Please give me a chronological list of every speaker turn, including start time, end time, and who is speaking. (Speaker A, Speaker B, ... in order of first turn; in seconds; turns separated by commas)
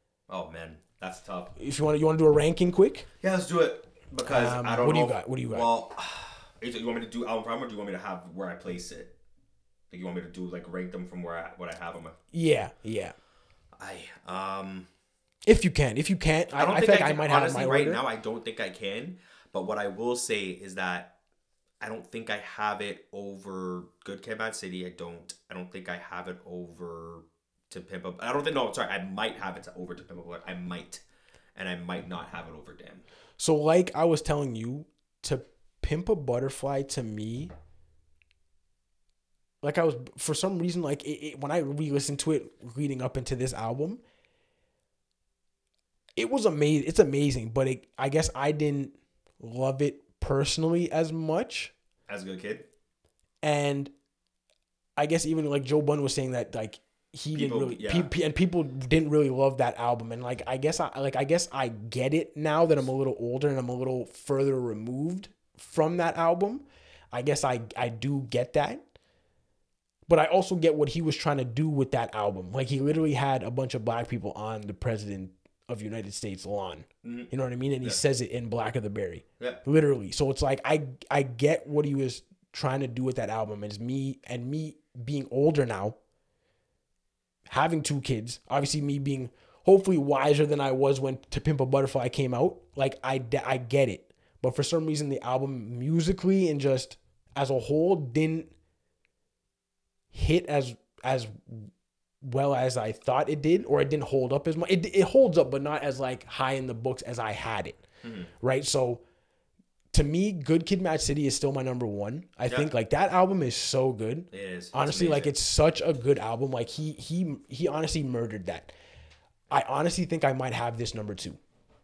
Speaker A: 0.3-1.5, Speaker B: 1.6-3.1, Speaker A: 3.2-9.1, Speaker B: 4.2-5.7, Speaker A: 9.9-12.2, Speaker B: 12.3-13.1, Speaker A: 13.8-14.9, Speaker B: 15.4-18.0, Speaker A: 16.6-21.1, Speaker A: 21.8-31.0, Speaker A: 31.6-33.0, Speaker B: 33.4-37.5, Speaker B: 39.6-44.0, Speaker B: 46.1-51.7, Speaker A: 52.1-52.6, Speaker B: 53.4-53.9, Speaker B: 55.0-68.8, Speaker A: 57.3-58.1, Speaker B: 70.1-86.0, Speaker A: 77.0-77.3, Speaker B: 87.5-98.5, Speaker B: 100.1-101.7, Speaker B: 102.2-107.8, Speaker A: 108.0-108.3, Speaker B: 108.4-109.0, Speaker B: 109.9-118.7, Speaker A: 114.3-115.3, Speaker B: 119.5-121.4